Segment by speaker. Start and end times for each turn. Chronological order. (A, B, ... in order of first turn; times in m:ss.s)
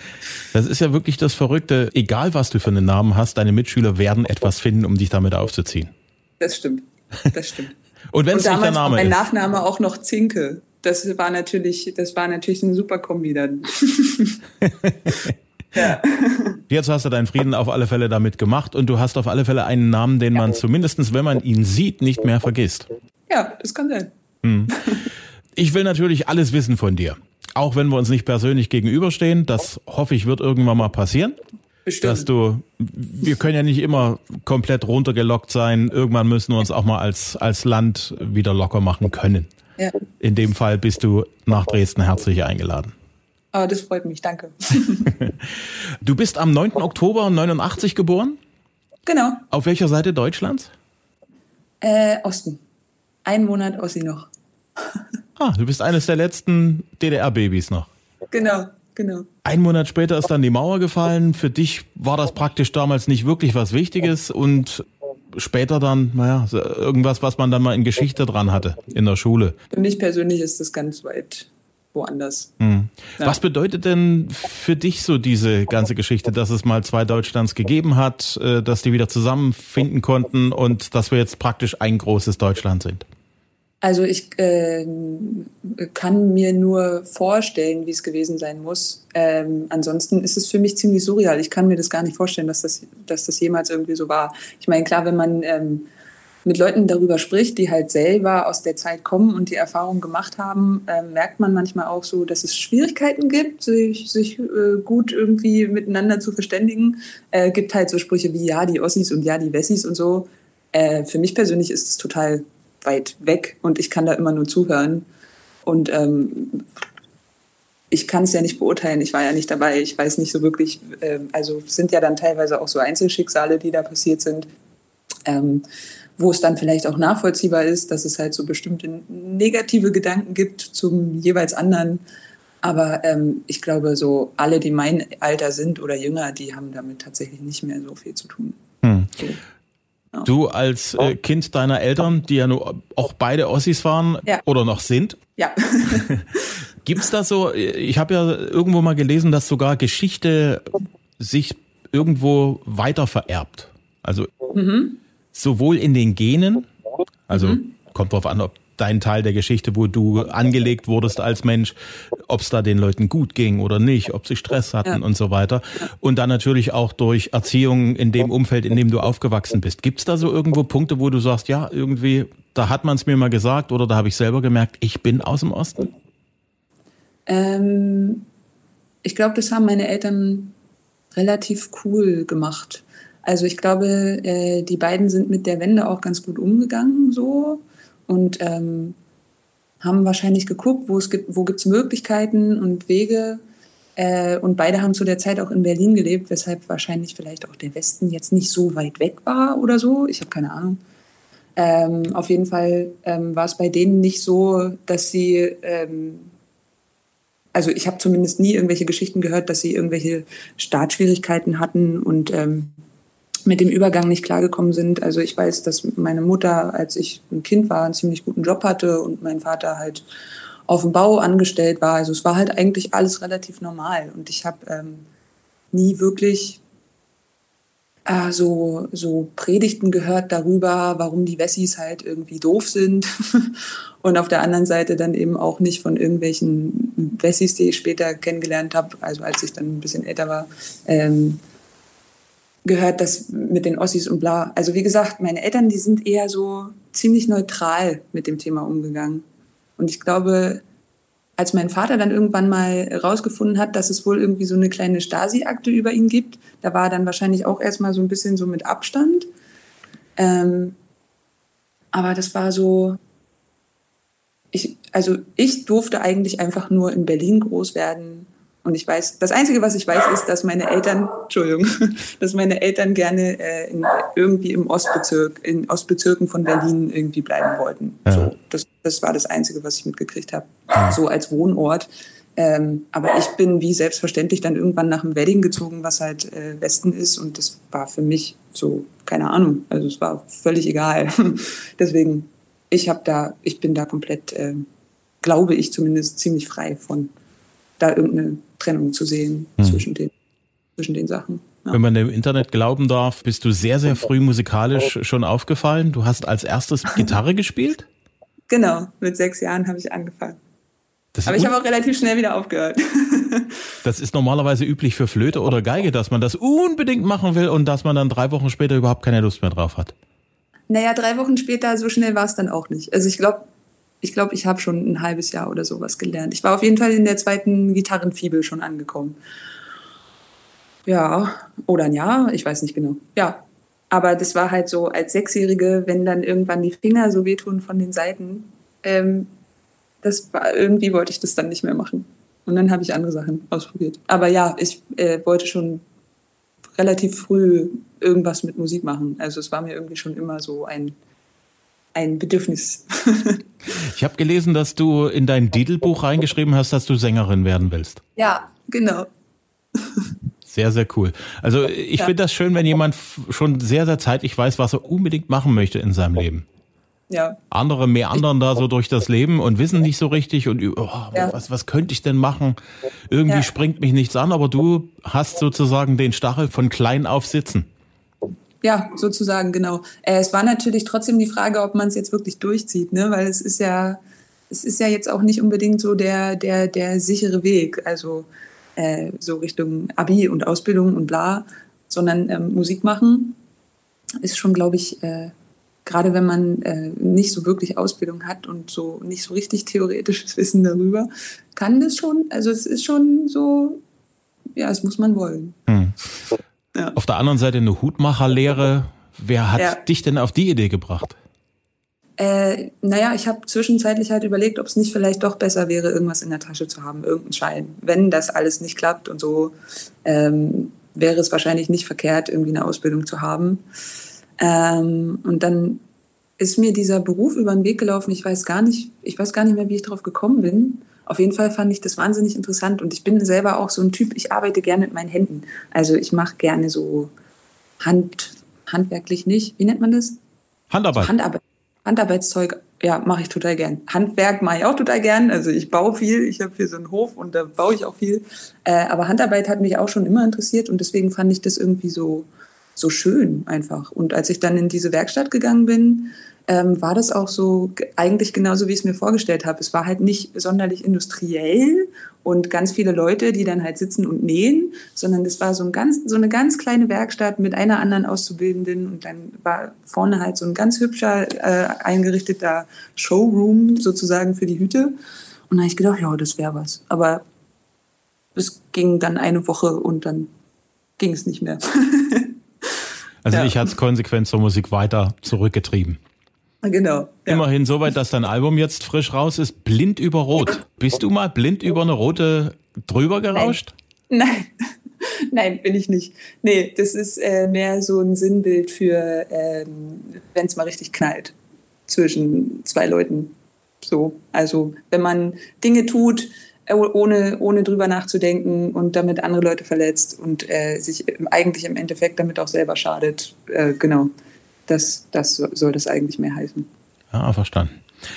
0:00.5-0:05.9 A
0:06.4-0:07.7 B
0:08.1-0:09.2 A
0:08.3-0:14.4 B
0:14.6-0:15.3 A
0:15.7-0:16.6 B
0:16.7-0:22.9 A
0:23.3-0:24.1 B
0:24.4-0:24.7 A
0:24.7-0:25.1 B
0:25.6-0:31.4 A
0:31.8-0:32.3 B
0:32.0-0:39.5 A
0:40.2-0:42.9 A
0:43.5-0:45.1 B
0:45.2-0:48.4 A
0:49.0-0:49.4 B
0:49.5-0:50.7 A
0:51.8-0:52.6 B
0:53.2-0:54.3 B
0:55.4-0:57.9 A
0:58.3-0:59.3 B
0:59.4-1:09.6 A
1:09.7-1:12.5 B
1:12.6-1:23.0 A
1:23.8-1:35.9 B
1:36.4-1:55.0 B
1:55.6-1:56.7 B
1:57.9-2:04.5 B
2:05.2-2:05.6 B
2:06.2-2:12.0 B
2:12.6-2:18.6 B
2:18.8-2:19.1 A
2:20.2-2:25.2 A
2:25.4-2:26.5 B
2:25.8-2:26.3 A
2:26.8-2:34.3 A
2:34.5-2:35.0 B
2:35.3-2:36.7 A
2:37.3-2:55.9 A
2:37.3-2:37.7 B
2:57.3-2:58.2 B
2:59.0-3:00.5 B
3:01.1-3:09.0 B
3:09.8-3:13.4 B
3:14.0-3:20.8 B
3:21.6-3:26.3 B
3:27.5-3:32.7 B
3:33.4-3:40.0 B
3:40.7-3:45.0 B
3:45.7-3:46.6 B
3:48.0-4:01.4 B
4:02.6-4:09.2 B
4:09.8-4:10.6 B
4:11.4-4:19.3 B
4:20.2-4:20.8 B
4:21.9-4:23.0 B
4:24.5-4:54.6 B
4:55.2-4:57.1 B
4:57.8-5:00.1 B
5:00.8-5:01.8 B
5:01.7-5:07.9 A
5:08.5-5:10.4 B
5:11.1-5:11.5 A
5:11.2-5:13.6 B
5:13.8-5:19.9 A
5:20.7-5:23.5 B
5:24.0-5:29.2 B
5:30.8-5:39.3 B
5:40.0-5:45.8 B
5:46.7-5:50.9 B
5:51.9-5:53.4 B
5:53.7-5:58.0 A
5:58.2-5:59.1 B
5:59.7-6:00.1 B
6:00.4-6:06.4 A
6:07.1-6:07.4 B
6:07.5-6:12.6 A
6:13.1-6:17.7 A
6:18.6-6:33.4 B
6:34.2-6:35.3 B
6:35.8-6:43.8 B
6:44.6-6:45.6 B
6:45.7-6:45.9 A
6:47.0-6:51.2 A
6:49.5-6:49.8 B
6:52.2-7:03.6 B
7:04.4-7:05.8 B
7:06.4-7:17.1 B
7:17.8-7:20.2 B
7:20.7-7:21.1 A
7:21.0-7:55.0 B
7:55.5-7:57.2 B
7:58.3-8:00.3 B
8:01.0-8:02.4 B
8:03.2-8:06.0 A
8:03.3-8:03.6 B
8:06.6-8:07.4 B
8:07.3-8:13.7 A
8:13.3-8:13.6 B
8:14.1-8:14.5 B
8:15.0-8:21.3 B
8:21.9-8:34.1 B
8:34.7-8:36.7 B
8:37.1-8:37.8 A